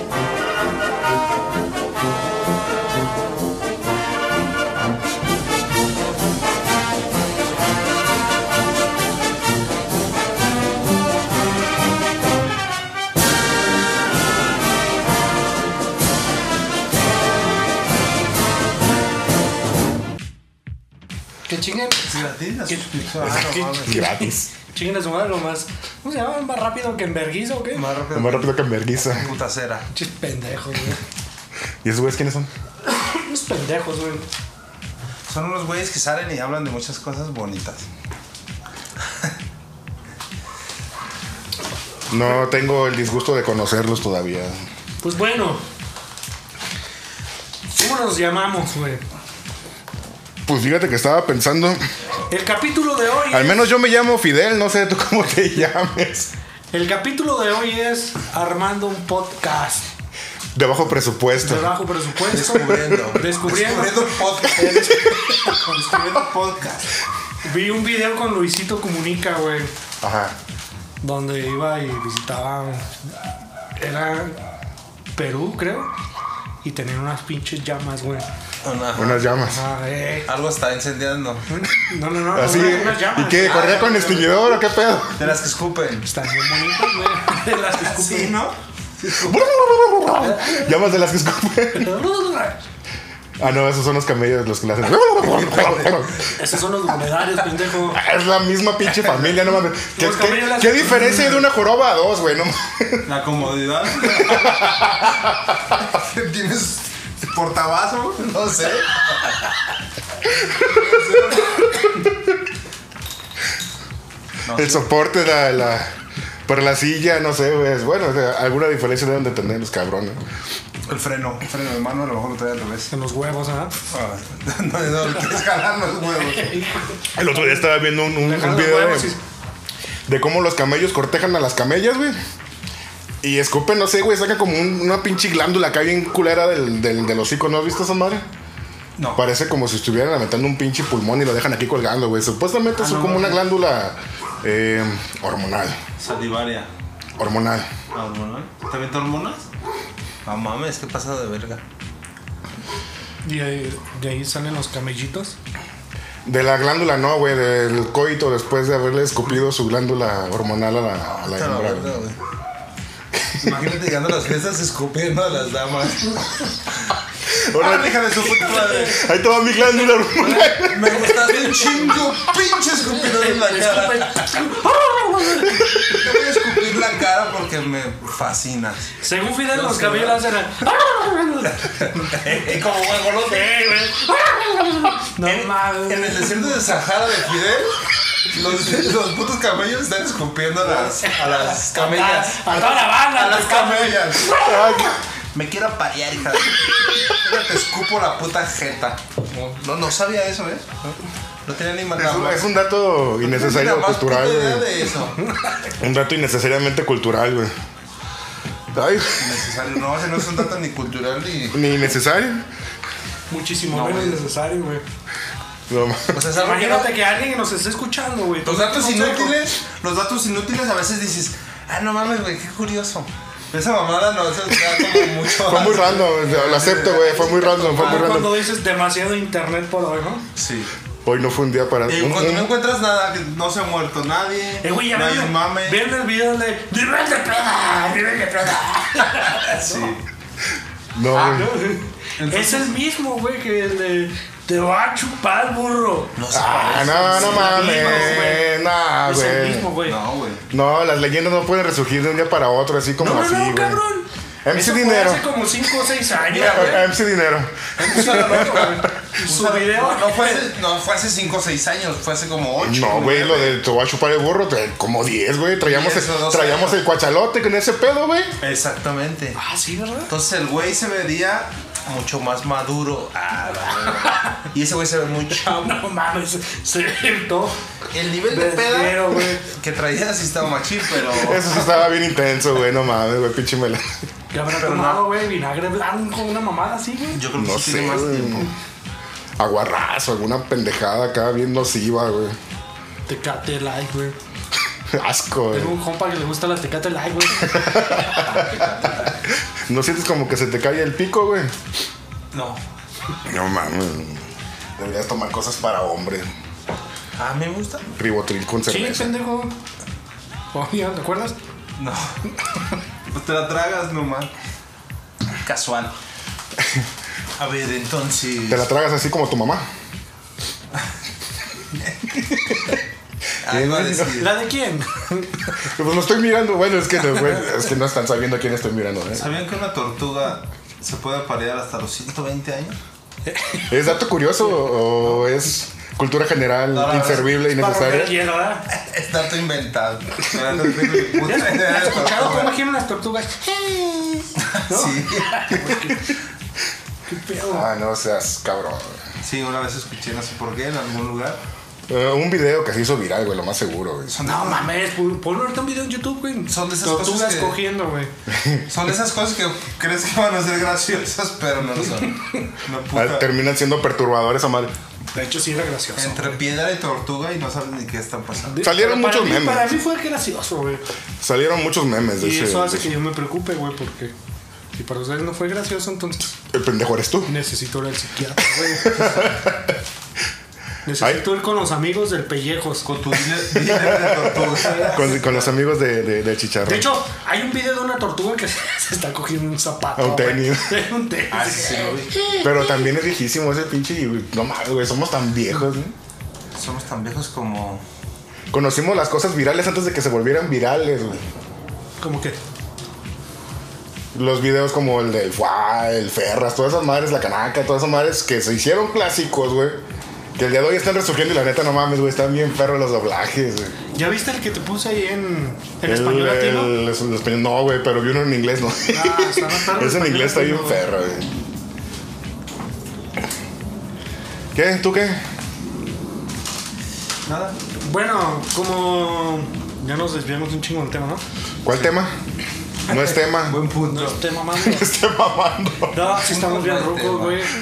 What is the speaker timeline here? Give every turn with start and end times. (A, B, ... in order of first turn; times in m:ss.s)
0:21.5-0:22.1 A
0:22.0-0:24.0 B
0:22.7-0:27.8 A
0:23.8-0:24.5 C
0:27.7-0:28.6 B
0:28.1-0:29.3 C
0:29.2-0:29.8 B
0:29.9-0:31.0 A
0:31.8-0:32.5 C
0:32.8-0:34.2 A
0:35.3-0:37.9 B
0:42.1-0:44.5 C
0:45.0-0:45.6 A
0:47.7-0:49.0 A
0:50.5-0:51.8 C
0:52.3-0:53.7 A
0:53.3-0:56.3 C
0:56.7-0:59.9 A
1:00.5-1:01.7 C
1:01.4-1:05.8 A
1:02.3-1:04.9 B
1:02.5-1:03.2 C
1:05.6-1:06.9 B
1:07.4-1:09.7 A
1:10.0-1:10.4 C
1:11.0-1:13.0 A
1:13.8-1:14.4 A
1:15.2-1:15.9 A
1:16.6-1:18.3 A
1:18.6-1:19.5 B
1:18.9-1:19.6 C
1:19.5-1:20.3 A
1:20.2-1:21.5 B
1:21.5-1:24.0 A
1:22.3-1:25.2 C
1:23.4-1:24.5 B
1:25.2-1:26.1 B
1:26.0-1:28.4 A
1:27.8-1:28.6 B
1:29.0-1:31.9 C
1:30.2-1:30.9 A
1:31.7-1:32.6 A
1:33.4-1:36.3 C
1:35.2-1:36.1 B
1:36.3-1:38.0 A
1:37.9-1:43.1 C
1:39.0-1:39.3 B
1:39.9-1:41.5 A
1:43.1-1:45.1 B
1:44.0-1:45.2 C
1:45.7-1:49.4 B
1:50.4-1:52.0 B
1:50.8-1:51.5 C
1:54.5-1:54.9 B
1:54.5-1:55.9 C
1:56.5-2:00.2 C
2:00.9-2:02.9 B
2:02.9-2:03.7 A
2:03.9-2:06.6 B
2:06.3-2:07.6 A
2:07.2-2:09.2 C
2:08.2-2:09.2 A
2:10.1-2:12.2 C
2:13.2-2:18.2 C
2:19.0-2:19.2 B
2:19.2-2:25.8 C
2:22.8-2:23.4 A
2:26.0-2:26.7 B
2:27.2-2:27.7 C
2:27.9-2:29.5 B
2:30.2-2:31.6 B
2:33.2-2:35.4 A
2:36.2-2:42.0 C
2:41.2-2:42.2 B
2:43.4-2:46.9 B
2:47.4-2:49.0 B
2:47.5-2:51.1 C
2:50.2-2:52.0 A
2:50.5-2:54.3 B
2:52.8-2:56.0 A
2:55.6-2:58.9 B
2:59.0-3:02.4 A
2:59.5-3:00.3 B
3:01.5-3:03.7 B
3:03.3-3:06.6 A
3:05.2-3:07.8 B
3:08.3-3:14.4 B
3:10.7-3:14.8 A
3:14.3-3:15.0 C
3:15.3-3:22.5 B
3:22.0-3:24.7 C
3:23.2-3:25.2 B
3:25.8-3:27.5 C
3:28.7-3:29.4 C
3:29.2-3:31.6 B
3:31.5-3:32.4 C
3:33.3-3:34.8 A
3:33.7-3:34.2 B
3:35.7-3:36.2 C
3:36.1-3:37.0 B
3:36.3-3:39.4 A
3:38.4-3:48.3 B
3:45.4-3:48.4 C
3:47.2-3:50.2 A
3:50.4-3:50.7 B
3:51.0-3:52.5 C
3:51.8-3:55.8 B
3:54.6-3:59.9 A
3:59.3-4:00.0 B
4:01.0-4:01.5 C
4:01.1-4:06.2 A
4:02.2-4:02.7 B
4:06.2-4:08.4 B
4:06.3-4:09.8 C
4:06.9-4:08.5 A
4:09.0-4:10.0 A
4:09.8-4:10.4 B
4:10.5-4:13.8 C
4:13.0-4:16.9 A
4:14.4-4:15.3 C
4:16.2-4:16.9 B
4:16.4-4:18.7 C
4:17.8-4:23.6 B
4:17.8-4:20.5 A
4:22.6-4:28.3 C
4:25.6-4:26.8 B
4:28.4-4:29.4 B
4:29.4-4:30.1 A
4:30.1-4:35.6 B
4:33.9-4:34.4 A
4:35.3-4:37.6 A
4:37.9-4:41.9 B
4:38.3-4:39.4 A
4:41.1-4:43.9 C
4:44.3-4:47.2 A
4:44.5-4:45.1 B
4:47.1-4:48.5 B
4:47.3-4:48.5 C
4:49.4-4:52.4 C
4:53.1-4:54.2 A
4:54.9-4:55.8 C
4:55.5-4:58.4 A
4:57.4-4:58.7 C
4:58.2-4:59.2 B
4:59.3-5:01.5 C
5:02.3-5:02.6 B
5:03.2-5:04.2 C
5:04.8-5:06.3 C
5:07.2-5:08.0 B
5:08.0-5:09.2 C
5:08.7-5:09.6 A
5:10.5-5:11.4 A
5:11.8-5:12.2 B
5:13.1-5:14.3 B
5:15.4-5:15.9 B
5:17.4-5:18.7 B
5:18.5-5:19.6 C
5:23.4-5:24.4 B
5:23.4-5:24.2 C
5:24.1-5:25.4 A
5:25.6-5:29.3 C
5:29.1-5:32.8 B
5:33.3-5:33.8 A
5:33.7-5:38.2 C
5:36.7-5:37.3 B
5:37.5-5:38.7 A
5:38.7-5:42.6 B
5:41.0-5:46.1 A
5:44.4-5:45.5 B
5:47.1-5:47.7 A
5:47.5-5:49.0 C
5:49.2-5:51.4 B
5:51.9-5:54.2 C
5:54.1-5:54.7 B
5:54.2-5:58.1 A
5:56.5-5:57.6 B
5:58.6-6:03.3 B
6:02.0-6:02.4 A
6:02.9-6:04.7 C
6:05.1-6:06.4 A
6:06.0-6:08.6 B
6:08.5-6:10.8 A
6:08.6-6:09.7 C
6:11.2-6:12.9 C
6:12.2-6:14.1 A
6:14.8-6:16.4 A
6:16.5-6:17.3 C
6:17.3-6:19.4 A
6:18.5-6:19.8 C
6:20.8-6:22.9 A
6:22.8-6:25.4 B
6:23.5-6:26.9 C
6:26.6-6:32.4 A
6:30.0-6:30.8 C
6:31.3-6:32.3 B
6:32.4-6:35.9 C
6:36.5-6:37.8 B
6:38.5-6:41.2 C
6:42.0-6:42.4 A
6:44.1-6:49.8 C
6:50.4-6:53.8 C
6:53.9-6:56.7 A
6:55.8-7:01.3 C
6:58.9-7:00.8 A
7:04.5-7:05.2 C
7:07.2-7:07.6 B
7:07.8-7:11.2 A
7:11.6-7:12.1 C
7:12.9-7:13.6 C
7:12.9-7:14.2 B
7:13.8-7:14.9 A
7:14.5-7:16.0 C
7:15.9-7:17.5 A
7:15.9-7:17.4 B